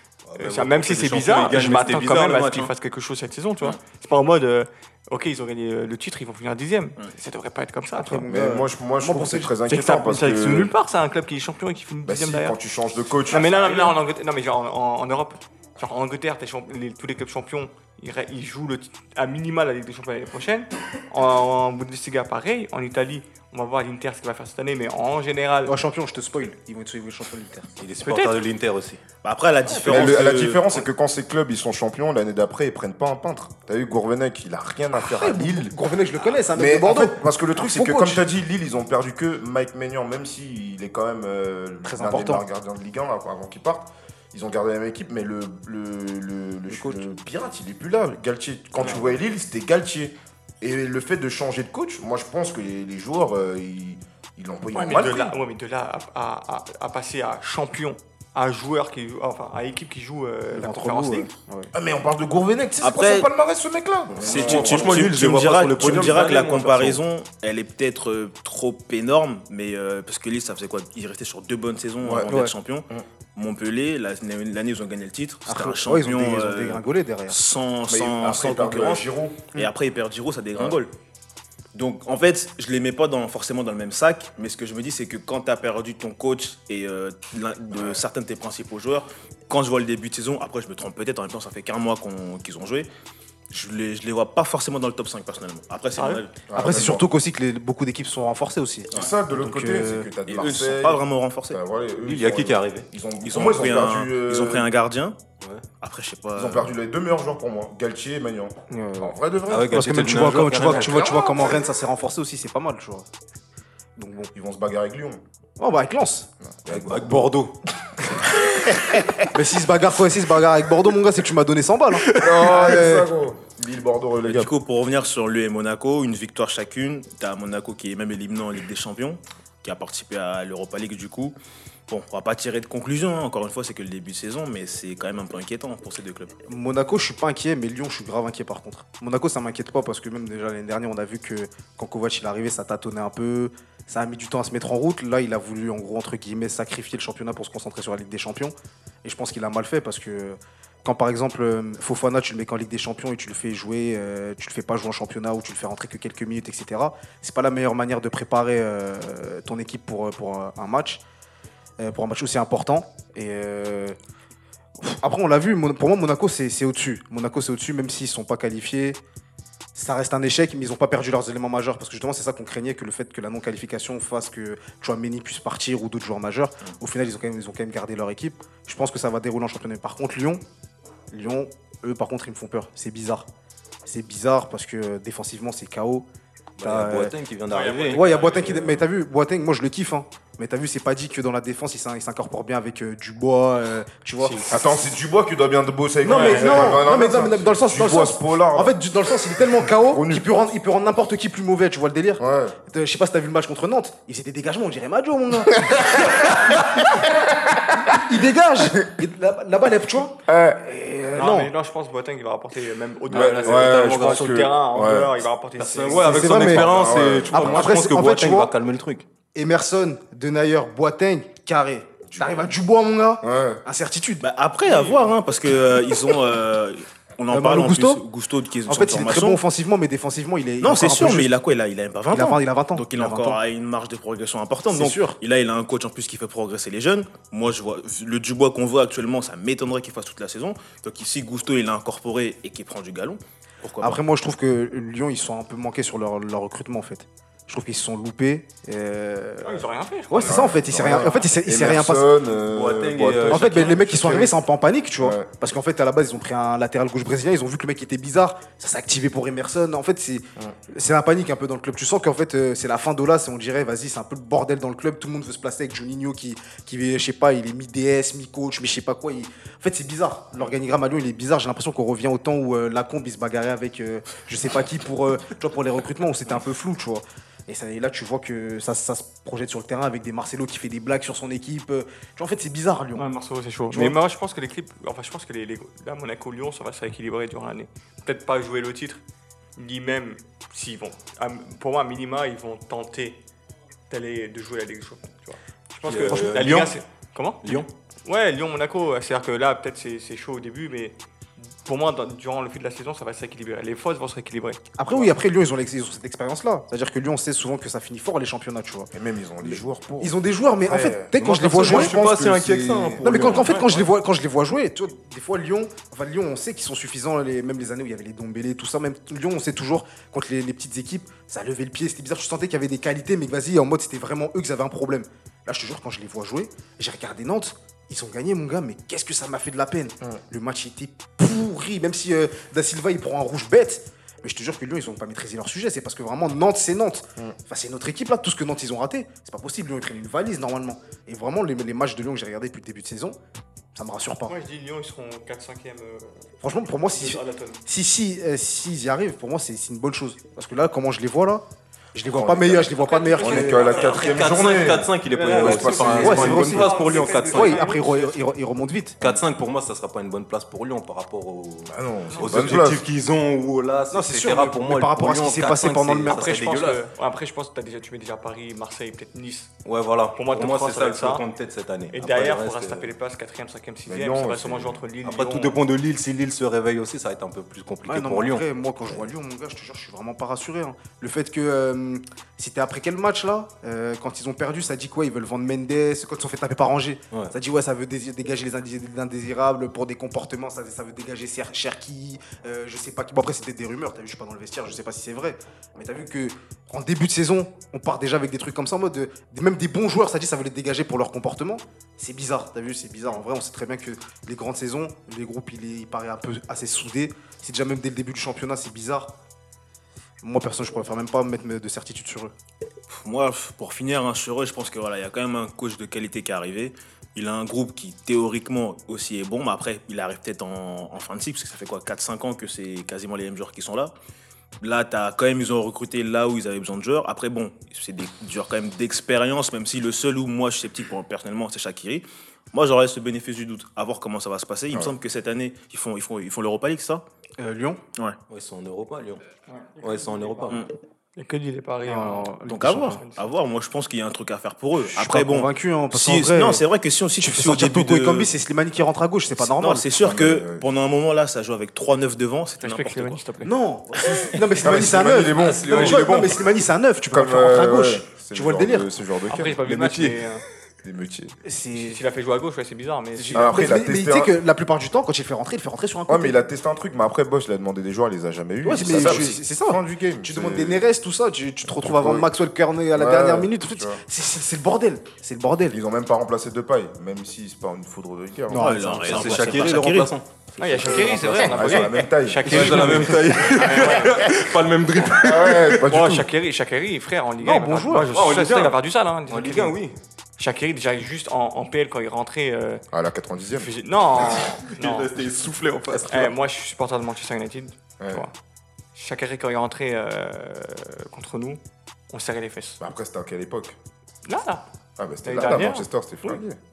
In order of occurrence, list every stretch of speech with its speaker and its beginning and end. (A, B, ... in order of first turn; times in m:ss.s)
0:00.3-0:02.7 A
0:00.4-0:08.2 B
0:08.0-0:09.5 C
0:08.3-0:10.7 D
0:09.7-0:12.6 B
0:12.0-0:13.9 D
0:13.3-0:25.7 B
0:25.7-0:27.7 C
0:27.8-0:29.0 A
0:28.0-0:28.4 B
0:29.2-0:30.8 E
0:29.7-0:30.1 C
0:29.8-0:35.8 D
0:35.0-0:38.2 C
0:36.5-0:55.4 D
0:41.8-0:42.4 C
0:46.7-0:47.0 C
0:54.7-1:01.3 B
1:00.5-1:01.7 C
1:01.7-1:05.1 D
1:02.8-1:03.3 E
1:04.1-1:20.9 E
1:04.2-1:07.0 A
1:12.0-1:12.3 D
1:15.5-1:17.4 C
1:17.9-1:19.6 D
1:21.8-1:32.9 E
1:33.5-1:36.4 E
1:36.0-1:36.2 B
1:36.5-1:37.1 D
1:36.5-1:40.1 C
1:38.9-1:44.7 D
1:40.3-1:41.6 E
1:42.0-1:42.9 A
1:43.2-1:45.2 E
1:45.8-1:46.7 E
1:46.4-1:49.9 D
1:48.7-1:53.1 C
1:49.5-1:51.1 A
1:50.7-1:51.2 D
1:54.0-1:54.3 C
1:54.3-1:55.2 D
1:55.6-1:56.3 C
1:56.4-1:57.3 D
1:56.7-1:57.5 A
1:59.3-2:03.1 C
2:02.1-2:02.4 A
2:02.2-2:04.5 D
2:04.2-2:11.4 E
2:11.9-2:16.4 E
2:16.5-2:41.0 C
2:41.8-2:44.0 C
2:44.8-2:49.0 C
2:49.8-3:00.4 C
3:01.1-3:03.3 C
3:03.8-3:06.1 C
3:06.6-3:08.8 A
3:06.6-3:07.2 C
3:07.5-3:08.5 B
3:07.9-3:14.8 C
3:14.2-3:14.5 B
3:14.5-3:18.8 D
3:16.0-3:27.1 C
3:16.0-3:16.8 B
3:19.4-3:20.3 D
3:22.2-3:22.6 D
3:25.6-3:28.2 D
3:27.9-3:31.5 C
3:30.3-3:30.6 D
3:31.2-3:36.4 B
3:33.1-3:35.2 D
3:33.2-3:33.9 A
3:35.6-3:39.0 A
3:36.0-3:38.5 C
3:36.3-3:37.8 D
3:39.3-3:44.2 C
3:43.2-3:43.6 D
3:44.2-3:49.4 E
3:47.3-3:48.0 C
3:48.7-3:51.3 C
3:50.6-4:04.0 E
3:52.1-3:53.4 C
3:54.7-3:55.2 C
4:03.8-4:12.2 C
4:09.4-4:11.2 B
4:10.2-4:13.9 D
4:12.4-4:14.4 A
4:13.3-4:43.1 C
4:15.0-4:15.3 D
4:43.0-4:49.0 B
4:43.7-4:44.0 C
4:49.6-4:53.2 B
4:53.9-5:01.0 B
4:55.8-4:56.8 A
4:57.4-4:57.7 A
5:01.6-5:04.6 B
5:04.8-5:12.0 C
5:08.9-5:13.6 D
5:11.2-5:13.5 A
5:13.0-5:43.2 C
5:13.4-5:13.8 B
5:43.7-5:44.4 C
5:44.3-5:47.6 B
5:46.4-5:53.9 C
5:52.1-5:56.7 D
5:52.8-5:54.2 B
5:53.8-5:57.8 A
5:55.1-5:58.2 B
5:56.0-5:59.0 C
5:59.0-6:06.8 A
6:01.7-6:02.8 D
6:02.1-6:02.6 B
6:03.9-6:06.3 C
6:06.1-6:09.5 B
6:09.6-6:12.9 A
6:10.1-6:11.2 B
6:11.9-6:15.6 B
6:13.9-6:14.8 D
6:15.0-6:18.5 A
6:17.8-6:49.1 C
6:50.2-6:52.3 C
6:52.9-7:03.9 E
7:04.6-7:17.0 E
7:17.4-7:17.8 C
7:18.3-7:19.2 A
7:19.6-7:20.6 B
7:19.8-7:20.6 A
7:21.2-7:23.2 B
7:21.8-7:23.0 C
7:22.5-7:28.3 E
7:24.9-7:26.6 C
7:27.2-7:29.9 C
7:29.4-7:33.2 E
7:30.0-7:30.6 D
7:32.6-7:33.6 B
7:33.4-7:38.9 C
7:34.6-7:36.3 D
7:34.9-7:36.4 A
7:37.1-7:39.6 D
7:39.3-7:40.4 B
7:39.6-7:40.2 A
7:40.8-7:41.4 D
7:41.4-7:42.0 C
7:41.8-7:43.6 B
7:43.2-7:46.4 C
7:43.3-7:44.4 D
7:46.1-7:50.9 D
7:48.6-7:55.8 C
7:51.9-7:52.3 D
7:52.9-7:54.0 D
7:55.7-7:58.7 D
7:58.5-7:59.8 C
7:58.5-8:00.1 E
7:59.0-8:05.8 A
8:00.6-8:04.3 B
8:01.5-8:03.1 D
8:05.2-8:06.3 D
8:05.8-8:09.8 B
8:07.4-8:08.1 C
8:08.1-8:08.8 A
8:09.3-8:09.9 A
8:10.4-8:12.8 B
8:12.9-8:13.7 D
8:13.6-8:15.3 B
8:14.3-8:16.4 A
8:16.1-8:18.3 B
8:18.0-8:18.2 D
8:19.0-8:21.6 B
8:22.1-8:22.8 B
8:22.8-8:23.8 D
8:24.3-8:24.6 B
8:25.0-8:26.6 D
8:25.2-8:26.4 B